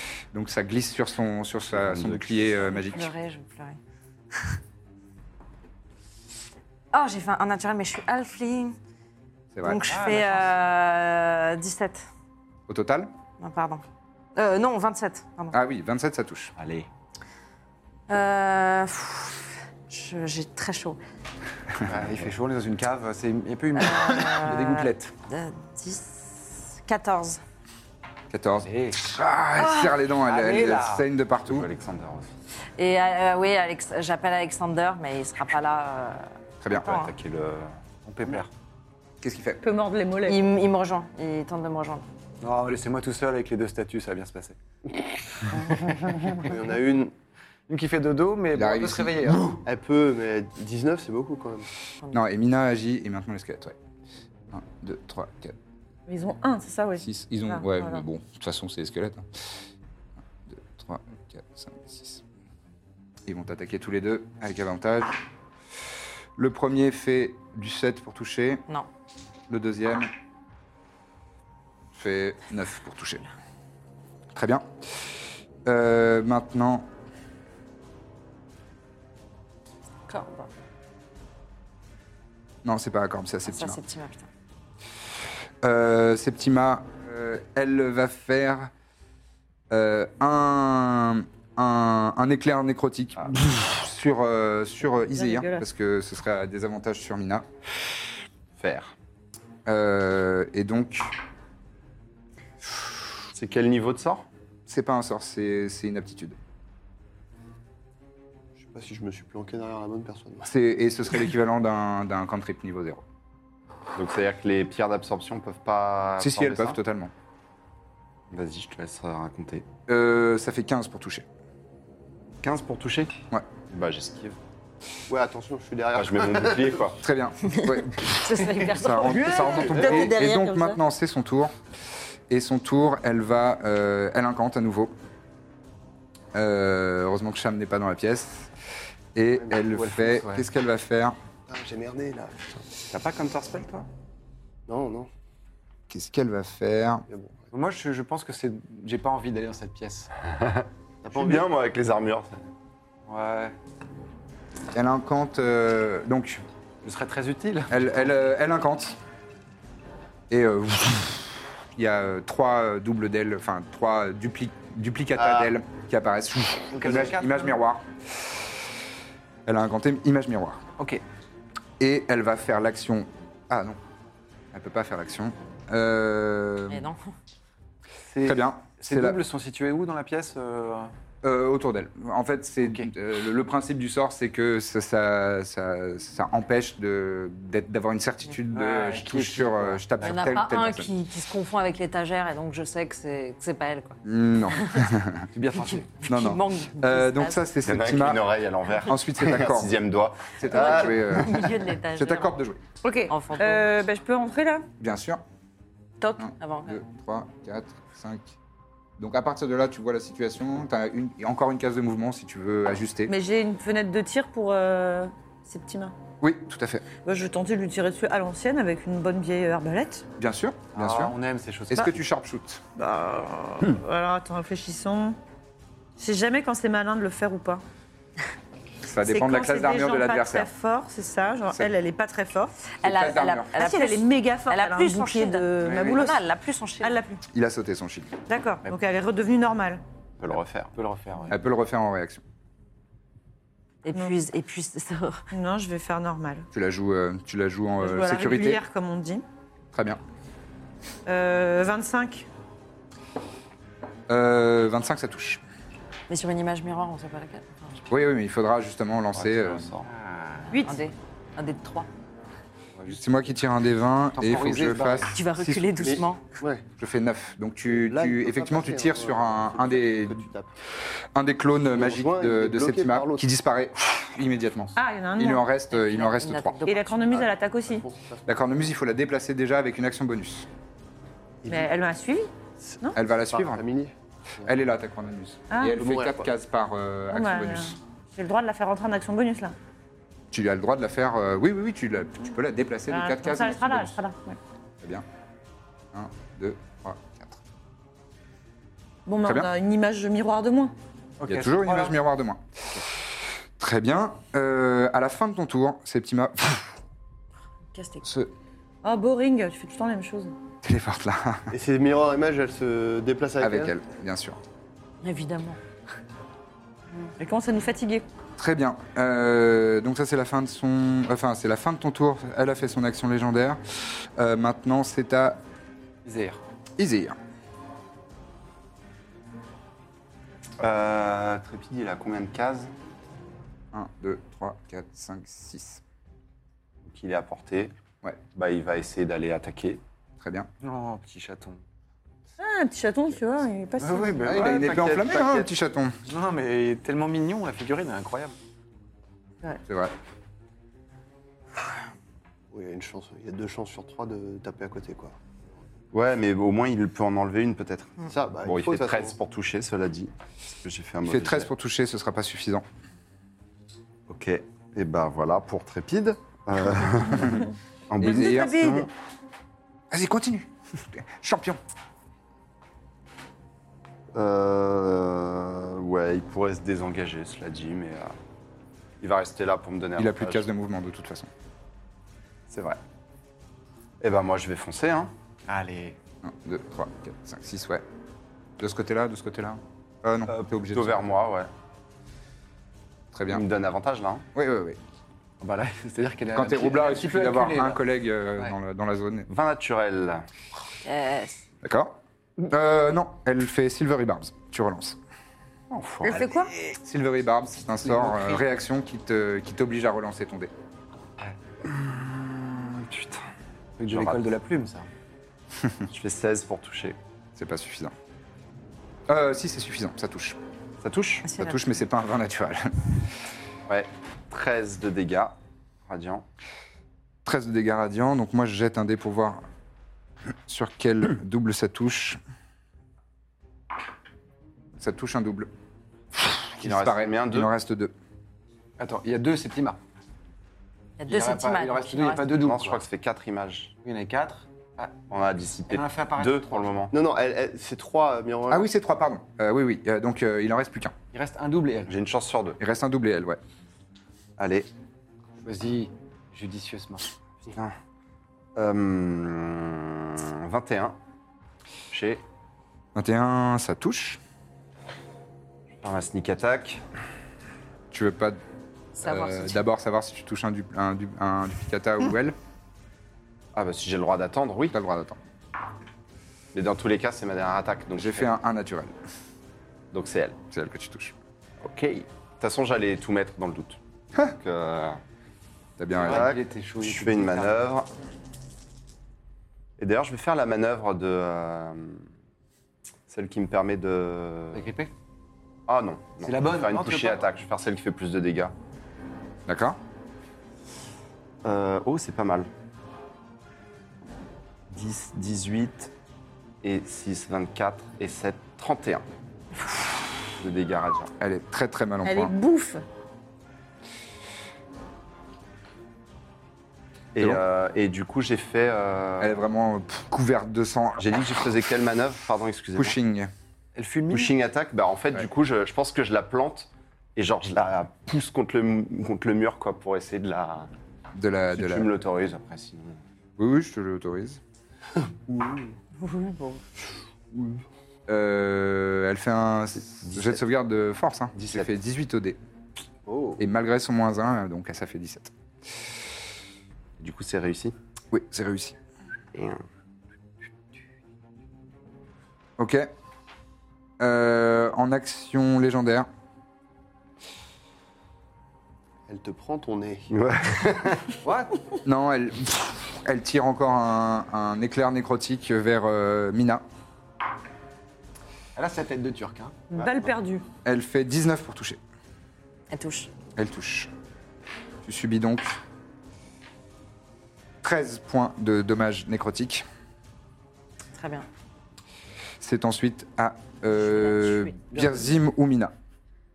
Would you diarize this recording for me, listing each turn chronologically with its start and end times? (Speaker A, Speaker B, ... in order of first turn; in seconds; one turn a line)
Speaker A: 0.3-3.1
Speaker B: 1.7-2.5
Speaker C: 2.5-3.8
Speaker C: 6.9-8.8
Speaker A: 9.5-9.9
Speaker C: 9.6-12.1
Speaker D: 9.8-10.5
Speaker A: 12.7-13.1
Speaker C: 13.4-13.8
Speaker C: 14.3-15.6
Speaker A: 15.5-16.5
Speaker B: 16.6-16.9
Speaker C: 18.1-21.0
Speaker D: 21.8-25.1
Speaker C: 23.8-27.4
Speaker A: 28.3-31.7
Speaker D: 28.6-29.0
Speaker C: 29.6-29.9
Speaker D: 30.2-31.1
Speaker B: 31.4-32.3
Speaker C: 32.8-37.1
Speaker A: 36.6-37.0
Speaker B: 36.7-37.8
Speaker D: 38.0-38.5
Speaker A: 39.2-39.6
Speaker E: 39.6-40.4
Speaker C: 40.2-42.0
Speaker D: 42.4-44.6
Speaker D: 45.9-46.3
Speaker F: 46.3-47.1
Speaker D: 47.7-49.6
Speaker A: 48.5-49.6
Speaker F: 49.6-51.7
Speaker A: 52.1-53.8
Speaker A: 54.5-55.6
Speaker E: 56.1-58.0
Speaker A: 57.0-59.3
Speaker A: 60.5-62.2
Speaker A: 63.3-65.2
Speaker A: 66.4-68.6
Speaker A: 69.5-70.1
Speaker A: 72.0-73.3
Speaker A: 74.3-75.1
Speaker A: 75.7-76.9
Speaker C: 80.1-80.5
Speaker A: 82.6-83.8
Speaker C: 83.5-84.3
Speaker A: 85.6-88.7
Speaker A: 89.7-97.5
Speaker E: 95.1-95.7
Speaker B: 98.6-99.0
Speaker A: 99.7-101.1
Speaker B: 103.3-104.2
Speaker A: 104.7-106.4
Speaker F: 108.6-110.5
Speaker A: 110.5-113.0
Speaker B: 114.0-116.8
Speaker A: 116.2-117.1
Speaker B: 118.3-119.7
Speaker A: 119.9-121.2
Speaker B: 122.4-124.4
Speaker F: 125.1-126.8
Speaker B: 125.9-127.0
Speaker A: 127.0-131.5
Speaker C: 127.5-130.8
Speaker D: 129.0-129.7
Speaker F: 129.5-130.1
Speaker A: 132.3-134.9
Speaker A: 136.3-138.5
Speaker A: 139.2-141.2
Speaker D: 139.7-140.5
Speaker F: 141.5-142.7
Speaker B: 142.9-143.9
Speaker F: 144.7-145.1
Speaker A: 145.9-147.1
Speaker F: 147.1-147.4
Speaker D: 147.5-150.1
Speaker B: 150.4-152.5
Speaker F: 151.0-151.5
Speaker D: 153.1-153.6
Speaker A: 154.7-156.4
Speaker D: 156.8-158.1
Speaker A: 157.7-159.0
Speaker A: 160.3-168.4
Speaker F: 165.2-165.5
Speaker D: 166.7-167.6
Speaker A: 169.5-170.6
Speaker A: 171.8-173.8
Speaker A: 174.5-176.9
Speaker C: 176.7-177.1
Speaker D: 178.1-180.9
Speaker A: 178.2-179.2
Speaker A: 181.2-190.9
Speaker D: 182.6-182.9
Speaker D: 188.5-190.3
Speaker C: 190.0-194.0
Speaker A: 194.1-195.3
Speaker C: 194.5-194.8
Speaker D: 195.3-195.9
Speaker C: 195.7-197.4
Speaker A: 196.1-198.3
Speaker B: 197.7-201.2
Speaker A: 198.8-199.8
Speaker A: 200.4-202.6
Speaker C: 200.5-202.3
Speaker E: 202.8-204.7
Speaker C: 203.1-203.7
Speaker A: 204.8-205.2
Speaker C: 206.0-206.8
Speaker A: 206.2-208.3
Speaker A: 209.0-213.1
Speaker E: 213.1-215.9
Speaker A: 216.2-216.8
Speaker E: 217.0-220.1
Speaker A: 220.2-221.2
Speaker D: 220.7-222.0
Speaker A: 221.7-222.6
Speaker E: 222.8-225.2
Speaker E: 226.0-227.6
Speaker A: 228.8-230.5
Speaker E: 229.0-232.6
Speaker C: 232.7-237.0
Speaker A: 232.8-233.5
Speaker E: 233.5-236.2
Speaker A: 235.6-236.0
Speaker E: 236.8-237.2
Speaker A: 237.3-238.1
Speaker E: 238.3-239.8
Speaker B: 240.2-240.7
Speaker D: 240.7-241.4
Speaker A: 241.3-242.2
Speaker C: 243.8-245.2
Speaker E: 245.3-246.5
Speaker A: 246.5-248.6
Speaker E: 247.8-249.2
Speaker A: 249.7-250.0
Speaker E: 251.1-252.3
Speaker A: 254.1-255.4
Speaker C: 256.1-257.8
Speaker A: 257.9-259.7
Speaker B: 259.1-259.9
Speaker D: 259.9-260.5
Speaker E: 260.5-260.9
Speaker C: 260.6-261.9
Speaker A: 262.9-266.1
Speaker D: 264.1-265.2
Speaker C: 265.1-266.2
Speaker F: 265.8-266.6
Speaker A: 266.8-270.2
Speaker F: 267.7-270.5
Speaker A: 271.1-276.6
Speaker F: 271.7-273.2
Speaker E: 274.8-275.5
Speaker C: 275.7-277.3
Speaker E: 276.6-277.9
Speaker F: 277.2-278.3
Speaker A: 278.3-280.5
Speaker E: 281.5-282.3
Speaker F: 282.6-284.5
Speaker A: 283.0-283.6
Speaker A: 284.4-287.8
Speaker E: 285.5-285.8
Speaker F: 285.7-286.3
Speaker E: 287.1-289.6
Speaker A: 290.3-294.0
Speaker E: 292.9-294.4
Speaker A: 295.9-297.4
Speaker E: 299.1-300.7
Speaker A: 299.2-299.5
Speaker D: 301.2-302.0
Speaker A: 301.3-306.8
Speaker C: 307.8-308.0
Speaker A: 308.0-308.3
Speaker E: 308.8-310.3
Speaker A: 310.6-311.5
Speaker F: 311.5-313.8
Speaker A: 313.4-314.4
Speaker C: 315.0-315.6
Speaker E: 317.2-318.1
Speaker A: 318.4-325.4
Speaker D: 326.1-326.4
Speaker A: 326.8-327.2
Speaker B: 330.6-332.7
Speaker A: 333.7-335.8
Speaker B: 336.9-337.7
Speaker B: 338.3-339.8
Speaker A: 340.2-340.5
Speaker D: 340.6-341.6
Speaker E: 342.4-344.3
Speaker D: 343.8-345.0
Speaker A: 344.2-346.0
Speaker B: 344.3-345.5
Speaker D: 346.1-348.4
Speaker A: 349.7-349.9
Speaker F: 352.5-355.2
Speaker B: 355.9-361.5
Speaker F: 358.1-359.1
Speaker A: 361.1-362.6
Speaker B: 364.1-368.9
Speaker A: 368.0-368.7
Speaker E: 368.0-368.9
Speaker A: 369.9-371.6
Speaker B: 374.1-378.2
Speaker B: 379.0-380.5
Speaker A: 380.0-381.3
Speaker B: 382.5-382.8
Speaker B: 384.0-385.1
Speaker D: 385.5-386.0
Speaker A: 386.2-387.8
Speaker A: 388.6-391.1
Speaker B: 390.3-391.5
Speaker A: 393.1-393.4
Speaker B: 393.3-394.2
Speaker A: 394.4-394.8
Speaker D: 395.4-397.8
Speaker A: 396.4-399.3
Speaker B: 399.3-400.2
Speaker C: 400.9-401.4
Speaker A: 401.6-405.0
Speaker B: 405.7-406.2
Speaker E: 406.0-406.5
Speaker A: 406.6-410.5
Speaker D: 407.8-408.4
Speaker B: 411.6-413.2
Speaker D: 413.8-414.9
Speaker B: 413.9-414.2
Speaker B: 415.9-417.0
Speaker A: 417.4-417.9
Speaker A: 419.1-420.4
Speaker B: 420.8-421.3
Speaker C: 421.2-421.7
Speaker A: 421.4-423.0
Speaker B: 423.7-426.3
Speaker A: 427.2-429.4
Speaker A: 430.5-432.2
Speaker A: 434.8-435.5
Speaker A: 436.1-437.9
Speaker B: 436.6-437.5
Speaker D: 438.8-439.8
Speaker C: 441.0-442.4
Speaker D: 441.1-442.8
Speaker B: 442.3-443.8
Speaker D: 443.8-445.0
Speaker B: 445.1-446.9
Speaker D: 445.7-446.9
Speaker F: 446.9-448.7
Speaker A: 448.5-451.0
Speaker D: 451.1-451.9
Speaker B: 451.9-452.6
Speaker A: 452.6-453.4
Speaker B: 454.4-454.7
Speaker D: 455.4-457.2
Speaker B: 457.5-457.8
Speaker B: 458.6-461.0
Speaker B: 461.9-462.2
Speaker A: 462.9-464.2
Speaker B: 465.8-466.8
Speaker A: 467.9-468.4
Speaker C: 469.0-469.6
Speaker A: 469.0-472.4
Speaker B: 473.5-474.8
Speaker A: 474.7-475.2
Speaker B: 476.5-478.3
Speaker A: 478.0-478.9
Speaker B: 479.9-480.4
Speaker A: 480.5-481.1
Speaker B: 481.6-485.0
Speaker A: 485.8-486.3
Speaker D: 486.0-487.6
Speaker B: 486.0-487.9
Speaker B: 489.8-492.1
Speaker B: 493.1-494.7
Speaker D: 494.5-494.9
Speaker B: 495.7-498.6
Speaker D: 496.2-497.3
Speaker A: 499.5-499.8
Speaker B: 501.4-502.5
Speaker D: 504.7-505.9
Speaker B: 506.6-509.1
Speaker B: 510.4-511.1
Speaker A: 511.2-512.3
Speaker E: 512.0-512.8
Speaker B: 517.1-519.4
Speaker A: 519.2-521.0
Speaker B: 521.0-523.0
Speaker A: 522.8-523.3
Speaker D: 523.8-524.3
Speaker B: 524.1-530.7
Speaker A: 531.1-531.9
Speaker B: 531.5-533.0
Speaker A: 533.4-534.4
Speaker F: 535.3-535.7
Speaker C: 536.0-536.6
Speaker A: 538.1-542.4
Speaker B: 541.4-541.7
Speaker B: 543.1-543.4
Speaker A: 543.4-545.3
Speaker B: 547.0-547.8
Speaker A: 548.1-548.8
Speaker B: 549.4-549.6
Speaker A: 552.6-552.9
Speaker A: 554.0-556.1
Speaker F: 559.1-560.6
Speaker B: 560.1-561.0
Speaker D: 561.2-561.5
Speaker A: 561.9-566.6
Speaker D: 568.6-569.7
Speaker E: 569.7-570.4
Speaker A: 570.6-571.8
Speaker C: 572.7-573.1
Speaker A: 573.4-573.9
Speaker A: 574.8-575.6
Speaker A: 577.6-579.6
Speaker C: 580.9-581.3
Speaker A: 582.4-585.7
Speaker C: 583.7-585.1